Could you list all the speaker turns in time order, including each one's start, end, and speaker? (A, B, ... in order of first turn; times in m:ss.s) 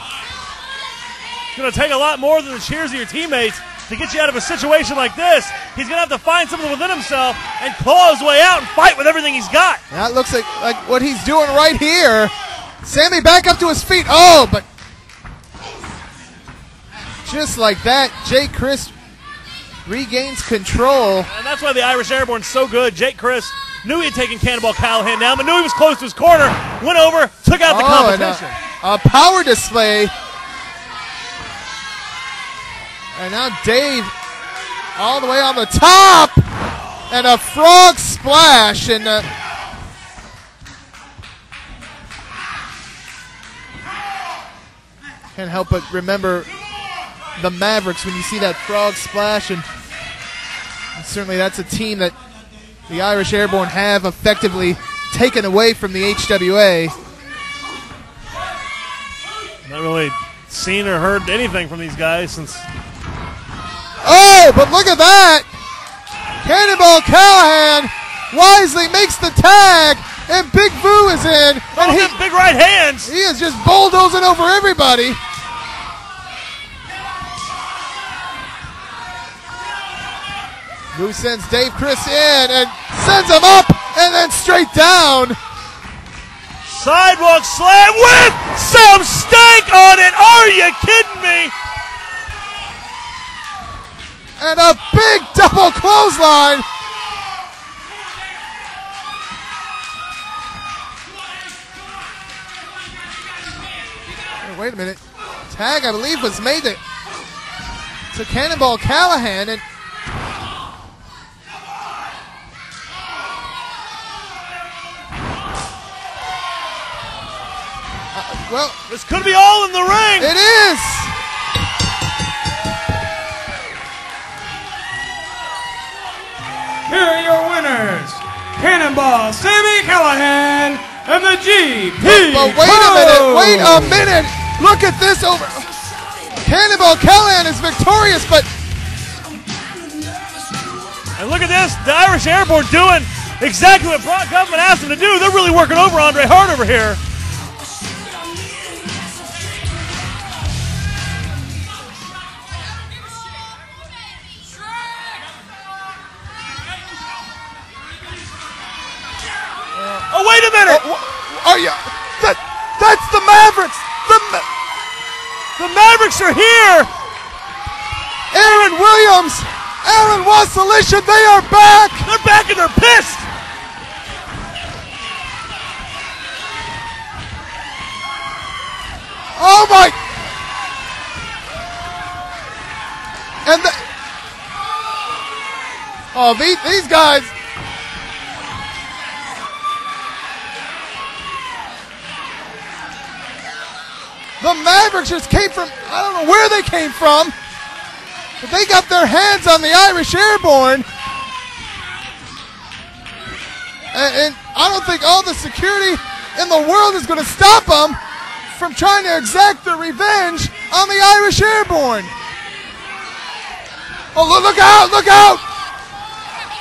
0:01.5-0:09.8 A
0:09.9-0:14.6 B
0:17.2-0:18.9 B
0:19.8-0:21.3 B
0:21.2-0:28.6 A
0:27.6-0:30.1 B
0:33.1-0:34.1 B
0:35.0-0:36.4 B
0:37.1-0:39.3 B
0:45.3-0:46.5 B
0:47.4-0:49.6 B
0:51.0-0:52.1 B
0:52.9-0:56.9 B
0:59.6-1:02.6 A
1:04.0-1:05.5 B
1:06.4-1:12.2 B
1:11.7-1:13.1 A
1:13.0-1:15.2 B
1:20.9-1:25.4 B
1:26.6-1:31.5 A
1:34.4-1:36.6 B
1:44.4-1:46.8 B
1:48.1-1:49.6 B
1:58.1-1:58.8 B
1:58.9-2:00.3 A
2:00.2-2:01.1 B
2:06.9-2:13.8 C
2:12.0-2:15.7 B
2:16.4-2:18.5 B
2:21.2-2:27.0 A
2:39.9-2:40.8 A
2:40.7-2:44.5 B
2:45.6-2:46.9 A
2:48.3-2:52.1 B
2:52.0-2:53.2 A
2:59.3-3:00.0 B
3:03.4-3:03.8 B
3:06.1-3:07.3 B
3:14.4-3:17.3 B
3:18.4-3:20.8 B
3:23.9-3:28.0 B
3:28.5-3:32.1 B
3:34.1-3:35.4 B